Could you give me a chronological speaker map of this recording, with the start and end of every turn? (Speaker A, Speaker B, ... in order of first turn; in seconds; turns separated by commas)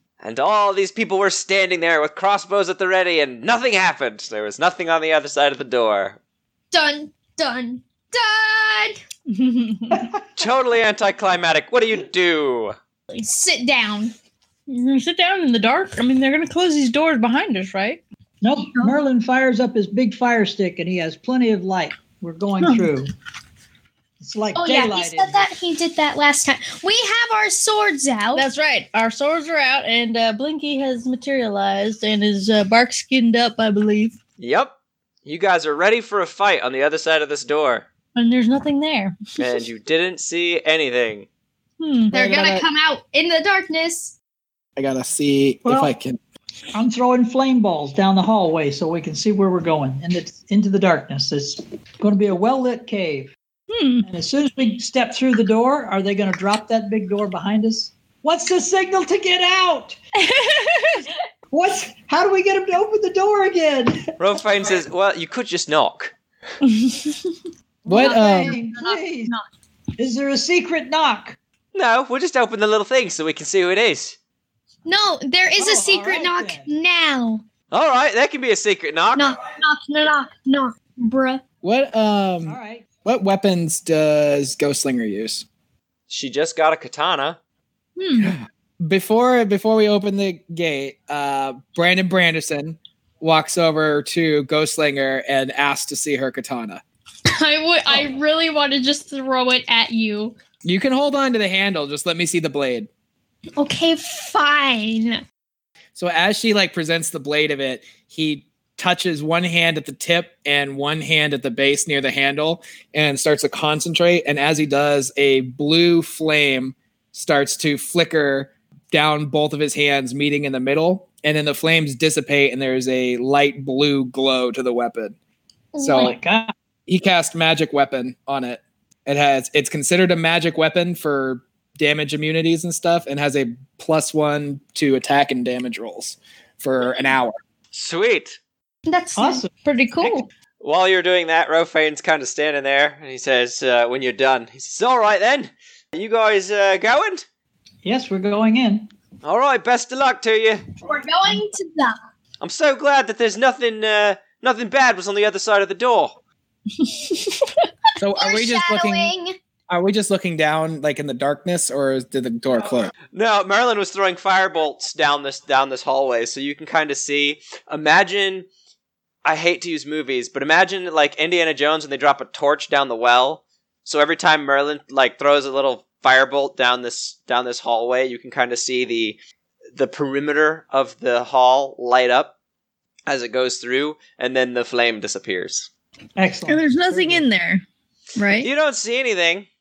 Speaker A: 0.2-6.2, Speaker B: 6.7-9.0, Speaker C: 9.3-10.1, Speaker A: 10.4-12.8, Speaker B: 13.1-14.1, Speaker C: 14.7-18.0, Speaker D: 18.4-23.1, Speaker B: 18.7-19.0, Speaker C: 22.6-22.9, Speaker D: 24.2-25.5, Speaker B: 24.5-28.5, Speaker C: 28.3-34.1, Speaker A: 34.4-37.9, Speaker C: 38.1-39.5, Speaker A: 39.4-41.3, Speaker C: 41.8-42.1, Speaker E: 42.1-42.6, Speaker B: 42.1-44.1, Speaker E: 44.8-46.2, Speaker D: 45.6-45.9, Speaker D: 46.7-53.3, Speaker C: 53.7-54.1, Speaker D: 54.0-60.0, Speaker C: 60.2-61.0, Speaker D: 61.5-64.1, Speaker A: 64.2-66.1, Speaker C: 66.6-67.3, Speaker D: 67.8-69.3, Speaker E: 67.8-68.6, Speaker B: 67.9-69.4, Speaker D: 70.0-71.4, Speaker A: 71.7-74.2, Speaker B: 74.8-77.4, Speaker D: 75.6-76.7, Speaker A: 77.7-79.3, Speaker B: 79.1-81.4, Speaker E: 81.6-85.5, Speaker D: 82.5-82.9, Speaker A: 86.1-87.4, Speaker C: 88.0-88.3, Speaker E: 88.2-96.8, Speaker B: 97.3-100.3, Speaker E: 100.6-102.9, Speaker B: 103.6-105.2, Speaker E: 106.0-125.1, Speaker B: 125.7-126.2, Speaker E: 125.8-126.1, Speaker D: 125.9-126.5, Speaker E: 126.9-137.3, Speaker A: 137.7-138.4, Speaker B: 138.8-139.4, Speaker D: 139.2-140.2, Speaker C: 139.6-140.2, Speaker A: 140.6-147.2, Speaker D: 147.8-148.9, Speaker A: 149.2-150.6, Speaker B: 150.8-152.0, Speaker A: 152.4-156.2, Speaker C: 156.8-157.7, Speaker E: 158.0-159.1, Speaker B: 158.2-159.3, Speaker E: 159.7-162.9, Speaker A: 163.1-168.5, Speaker A: 169.2-179.2, Speaker A: 179.8-182.3, Speaker A: 183.1-185.7, Speaker D: 186.2-187.2, Speaker C: 186.4-187.6, Speaker C: 188.2-188.5, Speaker A: 188.4-189.5